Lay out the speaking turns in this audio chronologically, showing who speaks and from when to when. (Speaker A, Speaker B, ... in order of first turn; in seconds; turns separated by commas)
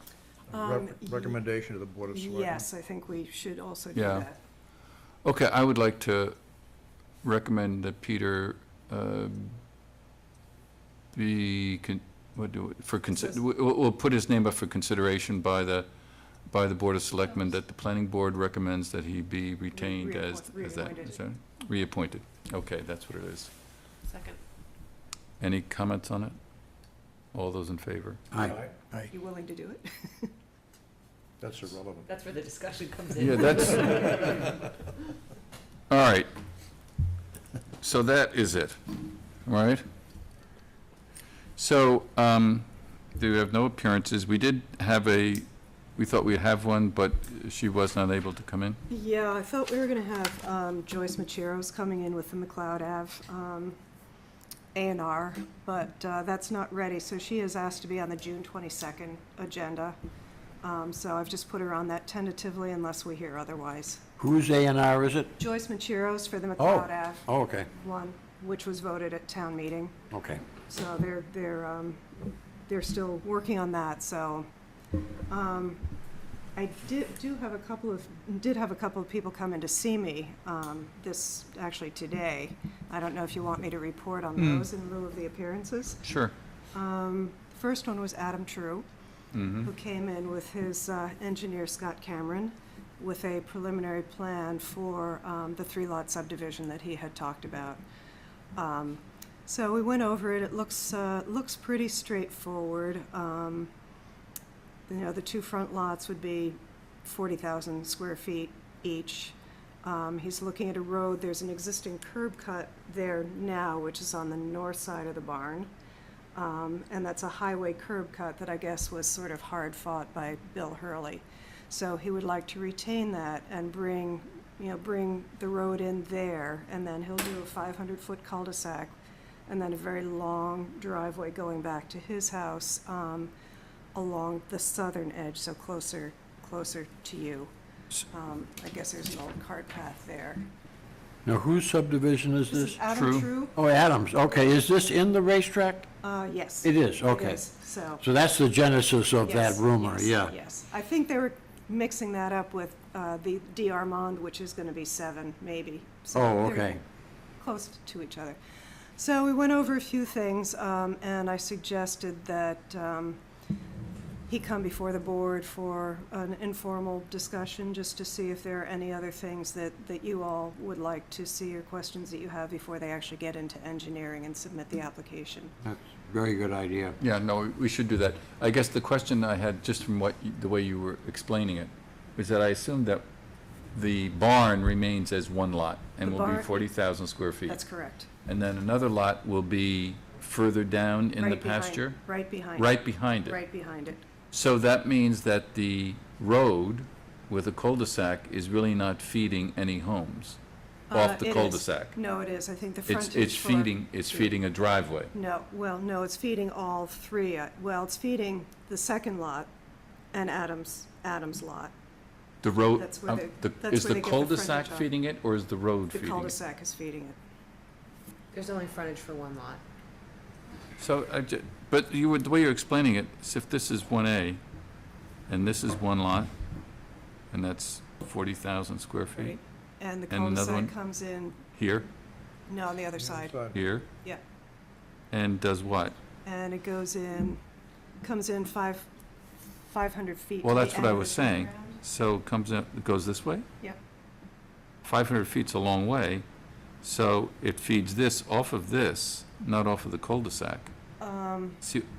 Speaker A: 0.5-2.6, Speaker B: 0.5-1.4, Speaker B: 2.1-4.4, Speaker C: 4.0-4.3, Speaker C: 5.2-6.4, Speaker C: 7.2-9.6, Speaker C: 11.1-23.5, Speaker B: 13.1-13.4, Speaker B: 19.7-21.2, Speaker D: 24.1-24.4, Speaker C: 25.4-26.4, Speaker C: 27.3-28.2, Speaker E: 28.3-28.6, Speaker A: 28.4-29.1, Speaker B: 29.1-30.3, Speaker A: 31.4-32.0, Speaker D: 32.0-34.5, Speaker C: 33.2-34.4, Speaker C: 35.9-36.3, Speaker C: 37.8-39.8, Speaker C: 41.6-48.8, Speaker B: 48.9-53.8, Speaker B: 54.7-60.0, Speaker B: 60.6-64.0, Speaker E: 64.2-65.3, Speaker B: 65.4-70.0, Speaker E: 66.6-67.7, Speaker E: 70.1-70.4, Speaker B: 70.7-72.0, Speaker B: 72.7-74.5, Speaker B: 75.3-75.8, Speaker B: 76.5-86.0, Speaker C: 84.4-84.7, Speaker C: 86.0-86.3, Speaker B: 86.7-88.8, Speaker C: 89.3-89.7, Speaker B: 89.6-97.8, Speaker B: 98.5-103.7, Speaker B: 104.9-115.7, Speaker B: 116.3-128.9, Speaker B: 129.5-133.3, Speaker B: 133.9-137.5, Speaker B: 138.1-140.5, Speaker E: 141.2-142.8, Speaker B: 142.5-143.6, Speaker C: 142.9-143.3, Speaker E: 143.5-145.9, Speaker B: 146.0-148.0, Speaker E: 146.6-147.5, Speaker E: 148.0-150.3, Speaker B: 149.2-156.8, Speaker E: 156.1-156.8, Speaker B: 157.4-158.4, Speaker B: 159.0-163.2, Speaker B: 164.3-175.5, Speaker E: 175.6-177.0, Speaker C: 177.0-183.1, Speaker C: 183.7-187.6, Speaker B: 186.0-186.7, Speaker B: 187.5-188.1, Speaker C: 188.2-192.0, Speaker B: 191.2-194.1, Speaker C: 192.6-193.4, Speaker C: 194.3-200.4, Speaker B: 200.9-204.4, Speaker C: 200.9-202.0, Speaker C: 202.9-205.1, Speaker B: 205.1-209.5, Speaker B: 210.1-211.7, Speaker C: 212.4-216.4, Speaker B: 212.8-214.9, Speaker B: 215.9-217.2, Speaker D: 218.3-219.6, Speaker C: 220.8-224.4, Speaker C: 225.3-226.3, Speaker C: 227.3-229.4, Speaker B: 229.2-231.4, Speaker C: 230.1-230.7, Speaker C: 231.5-231.9, Speaker B: 232.5-233.4, Speaker A: 233.0-233.6, Speaker C: 233.5-233.9, Speaker C: 235.1-236.0, Speaker B: 236.2-237.4, Speaker B: 238.0-238.9, Speaker B: 239.7-241.8, Speaker C: 240.4-243.5, Speaker C: 244.8-246.2, Speaker C: 246.8-250.7, Speaker B: 251.0-251.6